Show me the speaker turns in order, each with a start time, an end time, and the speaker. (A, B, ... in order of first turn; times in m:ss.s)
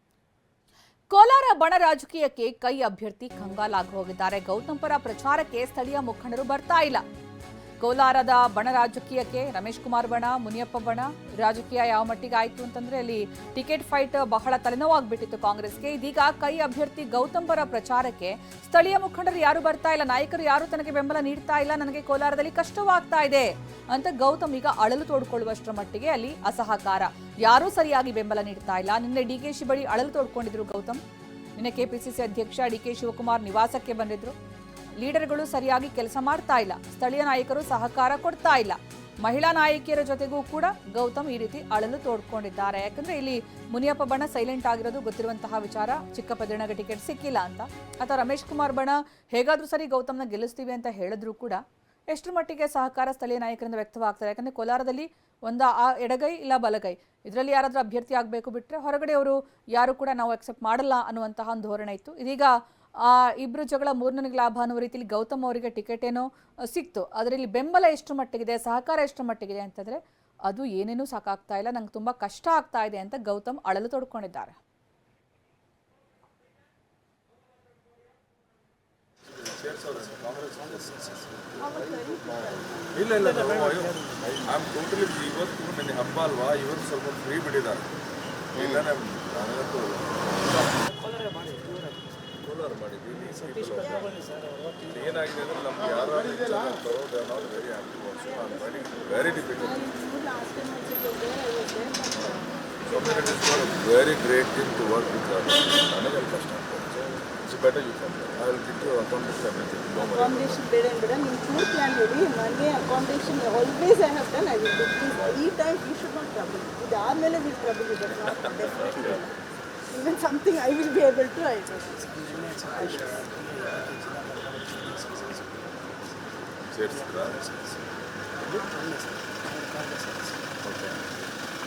0:01.1-0:07.0 A
0:07.8-0:31.0 A
0:31.6-0:34.3 A
0:35.0-1:14.6 A
1:19.3-1:22.0 B
1:21.6-1:22.9 C
1:22.6-1:27.9 B
1:28.5-1:30.7 B
1:32.4-1:34.1 B
1:34.8-1:39.8 B
1:39.6-1:42.4 C
1:42.8-1:50.6 B
1:50.0-1:59.3 C
1:58.8-1:59.2 B
2:00.0-2:01.8 C
2:06.7-2:07.4 B